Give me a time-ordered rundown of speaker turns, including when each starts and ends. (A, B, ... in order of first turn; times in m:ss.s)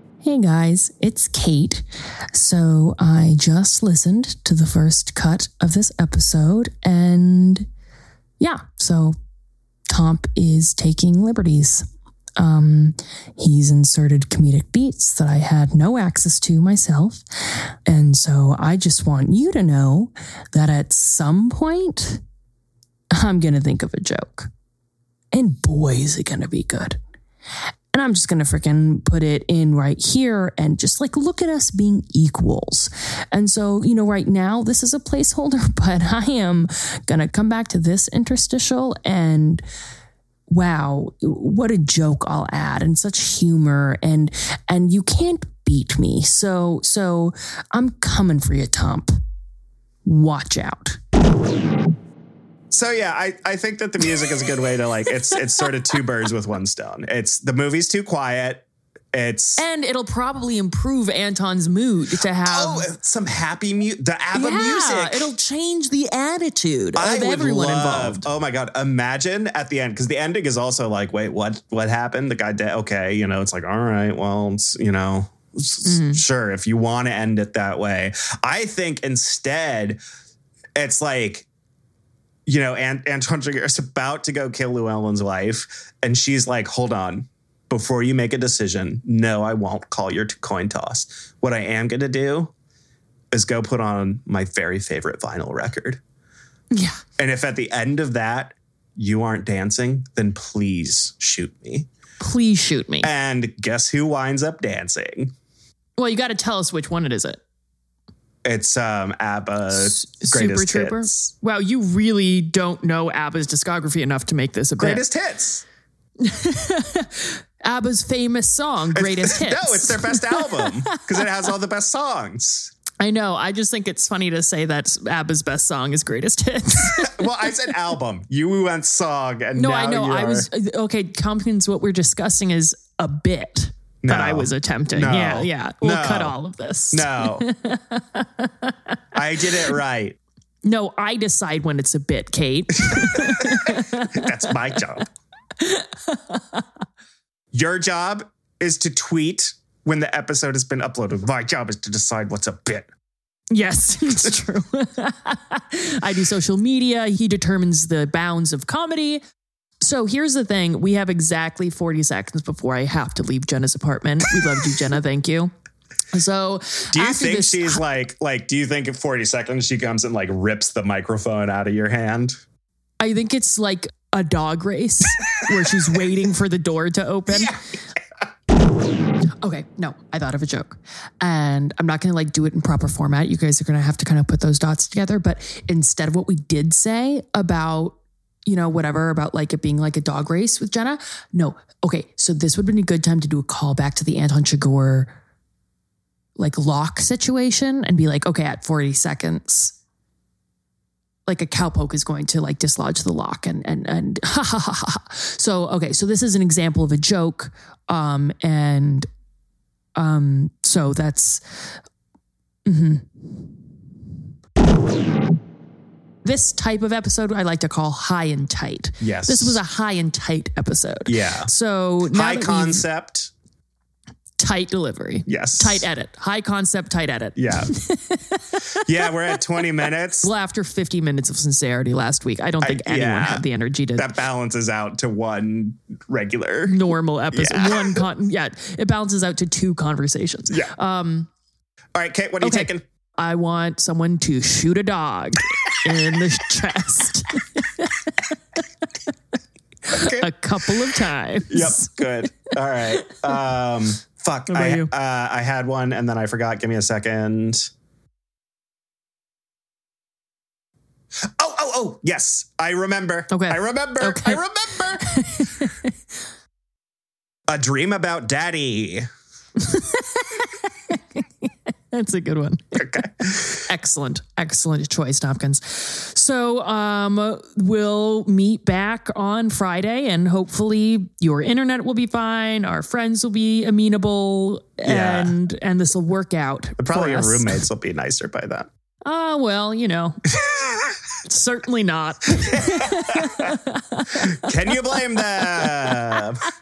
0:00.2-0:07.7 A
0:08.4-0:09.2 A
0:09.9-0:11.9 A
0:12.4-0:22.2 A
0:23.1-0:24.5 A
0:25.3-0:27.0 A
0:27.9-0:39.6 A
0:40.5-0:49.1 A
0:50.0-0:51.0 A
0:52.7-0:59.6 B
0:59.6-1:02.9 A
1:02.4-1:05.3 B
1:04.3-1:08.3 A
1:06.9-1:20.0 B
1:15.8-1:16.2 A
1:20.8-1:21.5 B
1:22.4-1:32.5 B
1:33.3-1:36.0 B
1:36.7-1:37.0 A
1:37.2-1:41.9 B
1:42.2-1:43.1 A
1:43.0-1:45.3 B
1:46.0-1:47.4 A
1:48.4-1:51.3 B
1:49.7-1:55.0 A
1:54.8-1:55.6 B
1:56.2-2:01.0 A
1:58.9-2:02.7 B
2:03.0-2:07.2 A
2:06.8-2:10.5 B
2:09.5-2:18.8 A
2:14.0-2:16.4 B
2:16.9-2:17.4 B
2:19.1-2:20.2 B
2:20.6-2:24.3 A
2:22.9-2:25.1 B
2:25.6-2:26.6 A
2:27.5-2:32.9 B
2:33.5-2:39.2 A
2:39.8-2:45.5 A
2:46.1-2:47.8 A
2:46.9-2:52.4 B
2:53.0-2:57.6 A
2:57.3-2:57.6 B
2:59.4-3:15.1 A
3:16.4-3:19.8 A
3:21.3-3:29.1 A
3:30.0-3:31.7 A
3:32.6-3:33.4 A
3:36.2-3:42.8 A
3:39.0-3:39.6 B
3:41.0-3:41.5 B
3:42.1-3:43.3 B
3:44.4-3:48.9 A
3:45.3-3:45.9 B
3:47.4-3:47.7 B
3:48.8-3:50.3 B
3:50.2-3:54.1 A
3:52.6-3:53.4 B
3:54.0-3:56.8 B
3:56.6-4:01.3 A
3:57.3-3:58.1 B
4:01.9-4:02.8 B
4:02.4-4:08.3 A
4:09.9-4:12.0 A
4:09.9-4:10.7 B
4:11.5-4:17.7 B
4:14.5-4:14.9 A
4:21.2-4:25.1 B
4:23.3-4:24.4 A
4:25.0-4:25.9 A
4:27.5-4:29.0 B
4:29.6-4:32.9 A
4:32.8-4:33.6 B
4:33.5-4:47.6 A
4:44.8-4:45.3 B
4:46.8-4:48.7 B
4:49.0-4:50.3 A
4:50.5-4:50.9 B
4:51.2-4:54.5 A
4:52.4-4:53.6 B
4:54.1-4:56.4 B
4:55.4-4:56.2 A